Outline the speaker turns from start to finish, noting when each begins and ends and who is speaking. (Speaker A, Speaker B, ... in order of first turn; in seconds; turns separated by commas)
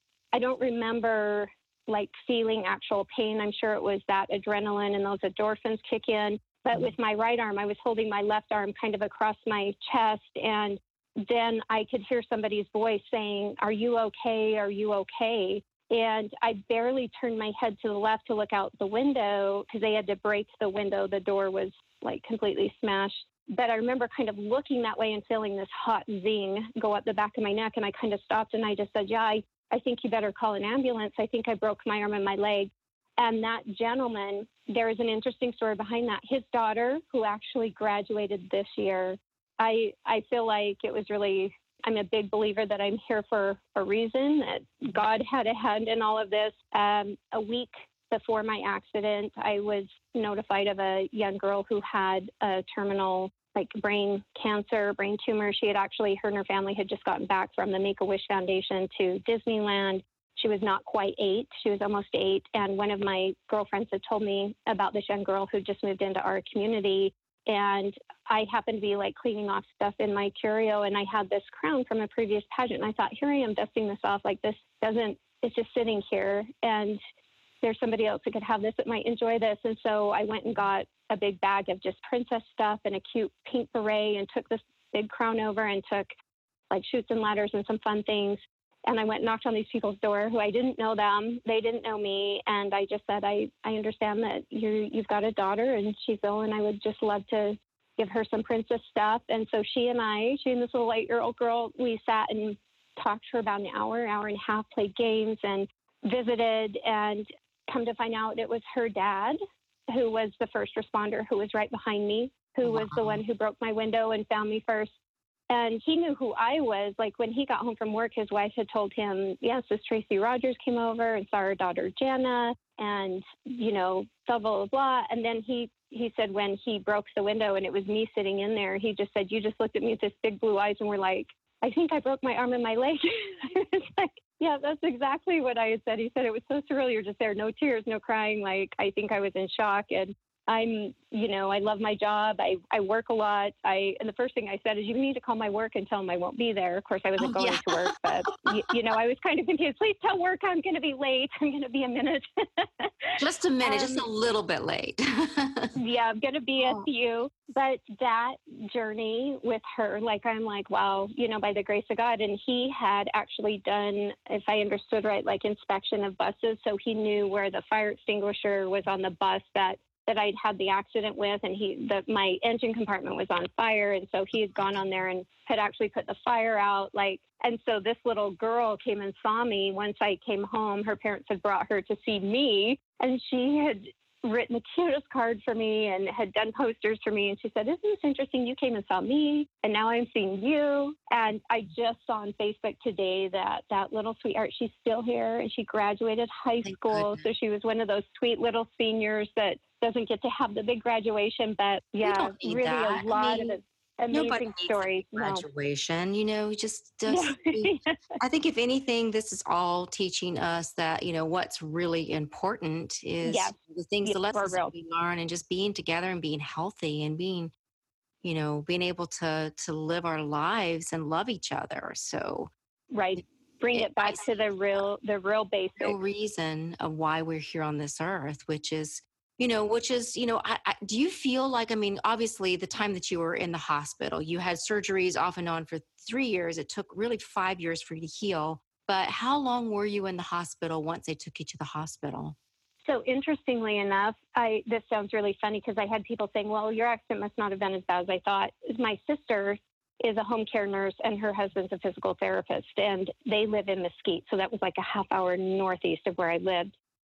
Speaker A: 0.3-77.0, Speaker A: 77.6-86.1, Speaker A: 86.7-109.4, Speaker A: 109.9-114.9, Speaker B: 112.7-113.2, Speaker A: 115.5-154.1, Speaker B: 147.2-148.5, Speaker B: 153.2-155.7, Speaker A: 155.8-205.4, Speaker B: 196.6-197.3, Speaker B: 202.0-203.6, Speaker B: 204.1-217.5, Speaker A: 207.1-208.0, Speaker A: 213.2-214.7, Speaker B: 218.2-222.5, Speaker A: 222.9-226.0, Speaker B: 223.7-224.8, Speaker B: 225.8-242.4, Speaker A: 242.9-256.7